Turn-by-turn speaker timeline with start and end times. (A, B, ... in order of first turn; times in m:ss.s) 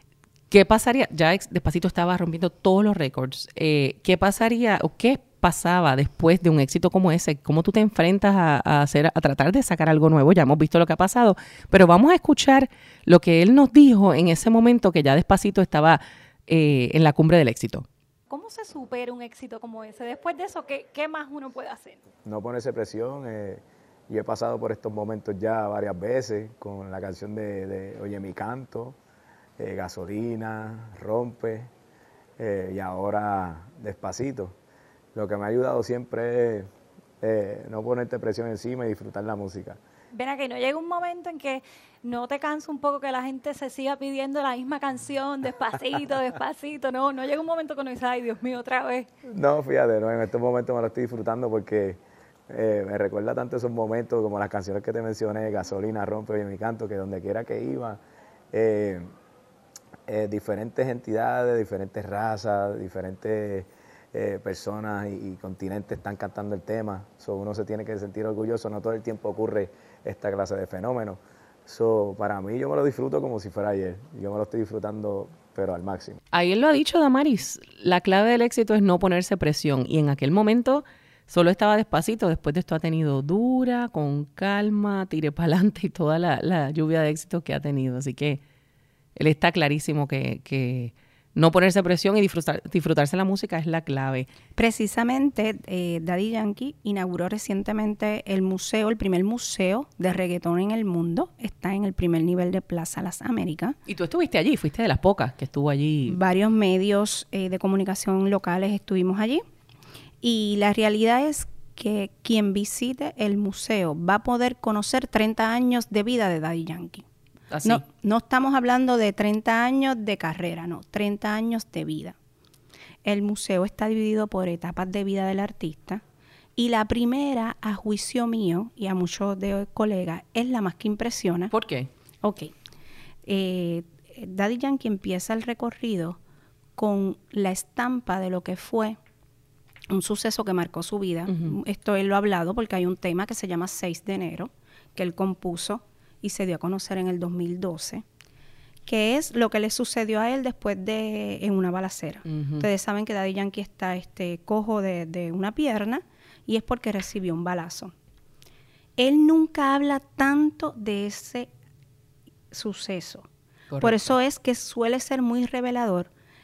0:00.5-0:17.8 A
0:18.3-0:22.0 B
0:22.2-0:29.0 C
0:29.6-0:31.7 C
0:32.4-0:34.6 C
0:35.1-0:36.7 C
0:37.2-0:39.8 C
0:40.1-0:49.1 B
0:49.3-0:58.0 C
0:58.5-0:59.1 C
1:00.1-1:16.2 C
1:16.3-1:28.4 A
1:29.2-1:34.3 A
1:34.6-1:43.8 D
1:43.9-1:46.2 A
1:46.1-1:49.4 D
1:50.2-1:57.0 D
1:57.5-1:57.8 A
1:57.6-2:02.2 D
2:03.0-2:06.0 D
2:06.6-2:11.5 D
2:11.5-2:11.9 A
2:12.2-2:12.5 D
2:13.2-2:16.2 D
2:16.8-2:19.0 D
2:19.9-2:28.0 D
2:28.8-2:37.9 D
2:32.3-2:32.6 A
2:39.0-2:41.5 D
2:42.5-2:43.3 D
2:43.7-2:44.1 A
2:43.8-2:46.1 D